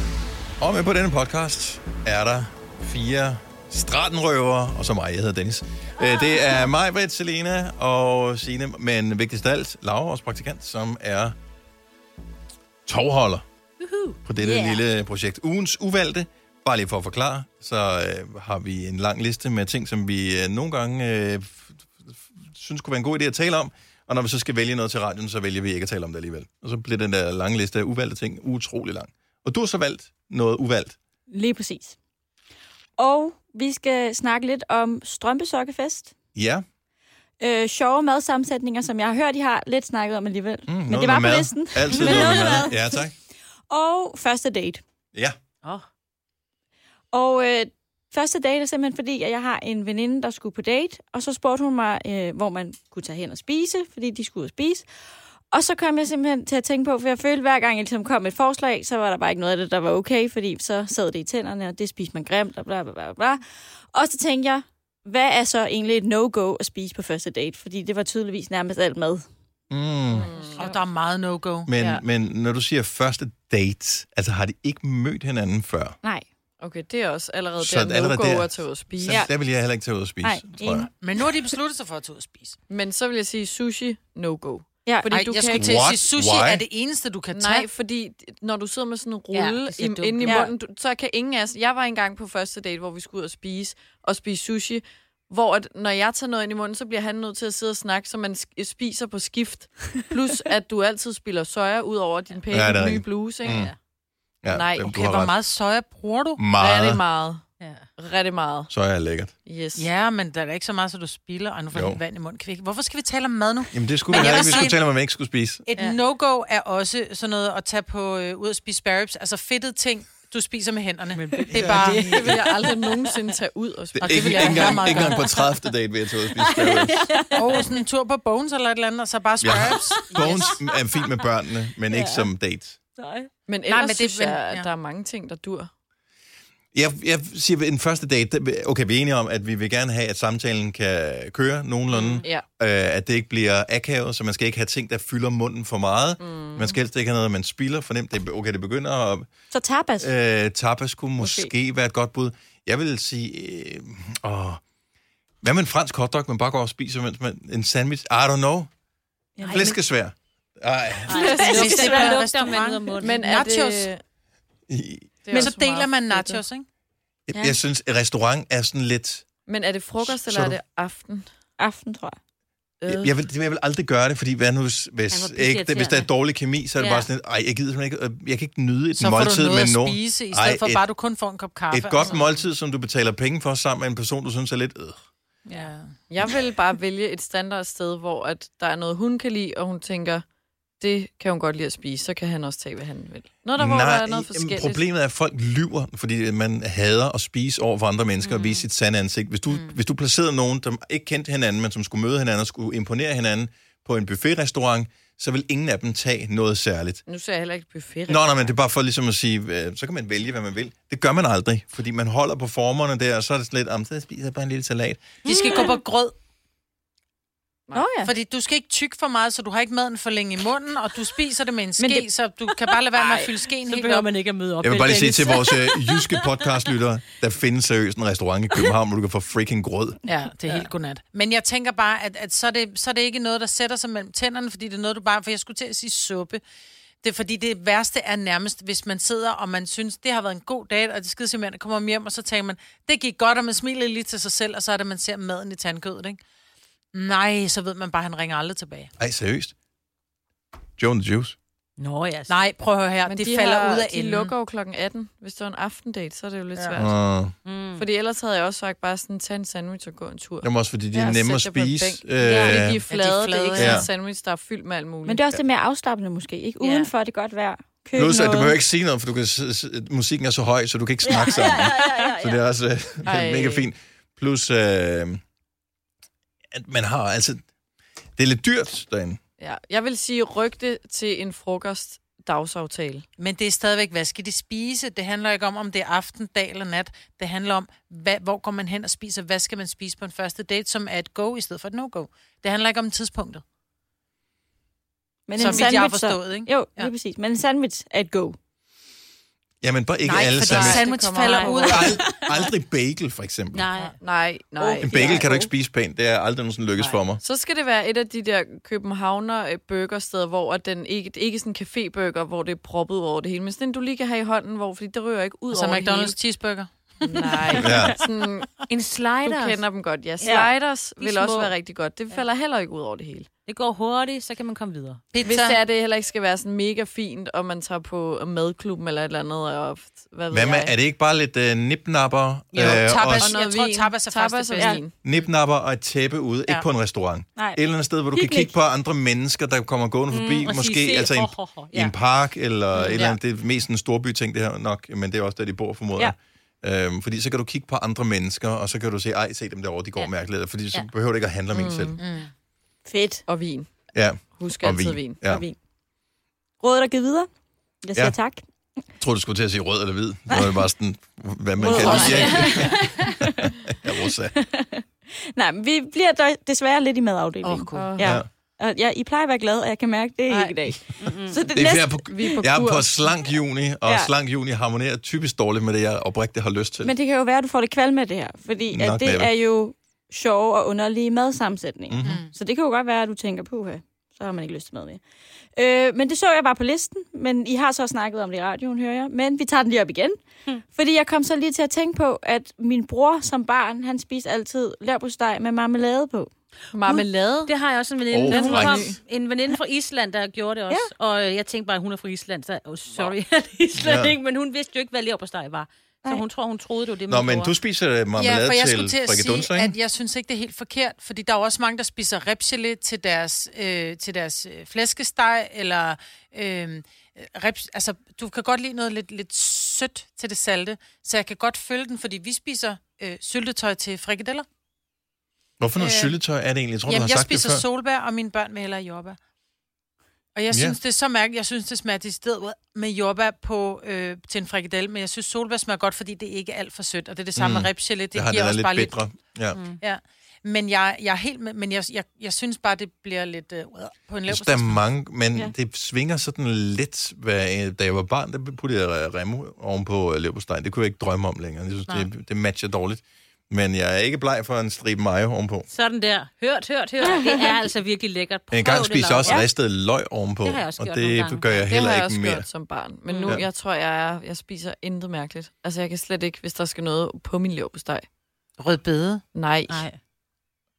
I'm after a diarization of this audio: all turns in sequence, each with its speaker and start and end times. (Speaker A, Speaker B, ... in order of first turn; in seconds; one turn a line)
Speaker A: 0.6-11.3
Speaker A: 12.8-13.4
Speaker B: 13.8-14.8
Speaker A: 14.2-31.0
Speaker C: 31.3-31.9
Speaker C: 33.0-36.1
Speaker A: 36.3-36.6
Speaker C: 37.4-43.0
Speaker A: 40.7-43.1
Speaker B: 41.9-42.4
Speaker C: 43.7-44.8
Speaker C: 47.1-54.9
Speaker C: 55.5-69.2
Speaker A: 69.7-70.3
Speaker D: 70.1-70.7
Speaker B: 70.3-70.8
Speaker E: 70.5-72.0
Speaker A: 71.7-76.0
Speaker D: 76.6-79.3
Speaker A: 77.6-80.9
Speaker C: 79.1-79.3
Speaker C: 80.2-80.9
Speaker E: 81.0-82.6
Speaker D: 82.7-85.9
Speaker C: 84.8-85.1
Speaker E: 85.1-87.7
Speaker A: 85.6-86.6
Speaker D: 87.3-103.7
Speaker B: 89.3-90.5
Speaker C: 90.2-90.5
Speaker A: 102.5-103.7
Speaker B: 103.4-103.8
Speaker A: 104.4-105.3
Speaker D: 104.5-104.9
Speaker E: 104.8-106.4
Speaker A: 106.4-107.0
Speaker D: 106.6-107.4
Speaker B: 107.6-107.8
Speaker D: 108.0-108.7
Speaker A: 108.7-109.3
Speaker D: 109.4-109.9
Speaker E: 109.8-114.8
Speaker A: 111.7-112.0
Speaker A: 113.7-115.6
Speaker B: 114.1-114.7
Speaker E: 115.7-122.3
Speaker B: 121.1-123.1
Speaker A: 121.5-122.2
Speaker D: 121.6-125.2
Speaker A: 124.0-127.1
Speaker E: 124.0-125.2
Speaker B: 126.4-127.6
Speaker E: 127.3-130.6
Speaker A: 129.4-132.8
Speaker B: 130.2-131.1
Speaker B: 131.9-132.3
Speaker B: 133.0-133.3
Speaker D: 133.5-135.7
Speaker E: 133.7-134.7
Speaker A: 136.7-149.3
Speaker B: 141.9-142.2
Speaker D: 146.2-146.8
Speaker C: 149.5-150.1
Speaker A: 150.0-154.6
Speaker C: 151.2-151.5
Speaker A: 155.4-158.7
Speaker C: 159.4-159.8
Speaker B: 159.4-159.8
Speaker A: 159.5-161.4
Speaker B: 161.1-163.2
Speaker C: 161.2-162.2
Speaker D: 161.2-162.1
Speaker E: 161.5-163.9
Speaker D: 163.0-164.0
Speaker A: 164.7-165.3
Speaker D: 165.2-166.4
Speaker E: 165.3-166.7
Speaker A: 167.3-169.2
Speaker D: 169.4-171.3
Speaker A: 170.0-170.6
Speaker C: 171.6-172.2
Speaker D: 172.8-173.1
Speaker A: 172.8-180.8
Speaker B: 175.1-176.1
Speaker B: 176.8-177.1
Speaker E: 178.9-182.2
Speaker A: 181.7-185.1
Speaker E: 185.5-185.9
Speaker D: 186.1-190.2
Speaker D: 190.8-194.8
Speaker A: 193.6-207.0
Speaker B: 198.2-198.6
Speaker D: 207.1-208.5
Speaker A: 208.1-215.2
Speaker E: 215.2-216.1
Speaker B: 215.3-215.6
Speaker C: 217.7-218.1
Speaker E: 218.0-224.1
Speaker C: 221.8-222.0
Speaker B: 223.6-226.3
Speaker A: 224.6-230.0
Speaker E: 230.1-236.4
Speaker E: 237.0-246.2
Speaker E: 246.9-248.9
Speaker A: 249.0-249.5
Speaker A: 250.8-251.4
Speaker B: 251.8-252.3
Speaker E: 252.3-254.3
Speaker D: 253.1-257.0
Speaker A: 256.8-257.3
Speaker B: 257.4-257.8
Speaker D: 257.8-265.2
Speaker A: 260.4-262.8
Speaker B: 262.2-262.6
Speaker E: 262.9-263.9
Speaker A: 263.6-263.9
Speaker C: 265.1-268.5
Speaker B: 266.6-266.9
Speaker A: 267.9-275.2
Speaker C: 271.0-272.4
Speaker D: 273.0-273.7
Speaker A: 276.5-277.4
Speaker A: 278.2-279.2
Speaker D: 279.4-283.1
Speaker E: 283.2-293.4
Speaker C: 295.3-298.4
Speaker E: 295.4-296.9
Speaker A: 299.6-300.9
Speaker E: 300.0-302.1
Speaker D: 300.4-302.2
Speaker B: 301.2-301.6
Speaker A: 301.6-303.7
Speaker B: 303.5-303.9
Speaker D: 304.0-305.3
Speaker C: 304.6-305.5
Speaker A: 304.8-307.2
Speaker D: 307.2-316.1
Speaker E: 315.5-317.7
Speaker D: 317.0-318.5
Speaker A: 317.6-318.0
Speaker B: 318.7-319.6
Speaker D: 319.2-323.3
Speaker C: 320.2-320.5
Speaker B: 321.0-321.5
Speaker B: 323.5-325.0
Speaker E: 325.1-325.6
Speaker D: 325.2-330.7
Speaker A: 330.3-333.3
Speaker E: 332.5-334.8
Speaker D: 332.6-334.9
Speaker C: 334.6-334.8
Speaker A: 335.0-352.0
Speaker C: 337.4-337.6
Speaker C: 338.1-338.5
Speaker B: 340.1-341.9
Speaker D: 351.5-352.0
Speaker E: 352.0-352.3
Speaker C: 352.9-353.2
Speaker D: 353.3-353.7
Speaker A: 353.9-355.4
Speaker D: 354.3-355.2
Speaker C: 355.2-355.6
Speaker C: 356.6-357.3
Speaker C: 357.8-358.4
Speaker A: 359.0-364.3
Speaker C: 360.3-360.6
Speaker C: 361.6-363.5
Speaker D: 361.6-362.8
Speaker B: 362.0-362.8
Speaker C: 364.3-372.1
Speaker E: 367.4-367.9
Speaker D: 367.7-368.2
Speaker A: 368.0-368.3
Speaker B: 371.0-371.4
Speaker A: 371.5-376.9
Speaker D: 372.1-373.2
Speaker C: 376.8-385.0
Speaker A: 378.7-379.3
Speaker A: 381.9-382.2
Speaker E: 382.0-382.3
Speaker C: 385.5-396.3
Speaker D: 396.7-397.5
Speaker B: 396.9-407.5
Speaker A: 398.1-398.9
Speaker D: 398.3-399.0
Speaker A: 403.8-404.1
Speaker A: 407.1-409.7
Speaker E: 408.2-424.4
Speaker A: 425.6-427.6
Speaker E: 425.8-426.1
Speaker E: 426.9-429.2
Speaker E: 430.3-439.0
Speaker A: 430.5-430.8
Speaker A: 437.4-439.6
Speaker E: 439.8-444.8
Speaker A: 444.3-455.7
Speaker B: 455.7-459.4
Speaker C: 457.0-457.5
Speaker A: 458.5-462.4
Speaker B: 460.4-461.6
Speaker D: 461.7-468.1
Speaker B: 463.1-463.4
Speaker E: 468.6-469.2
Speaker D: 469.3-469.9
Speaker B: 469.7-470.0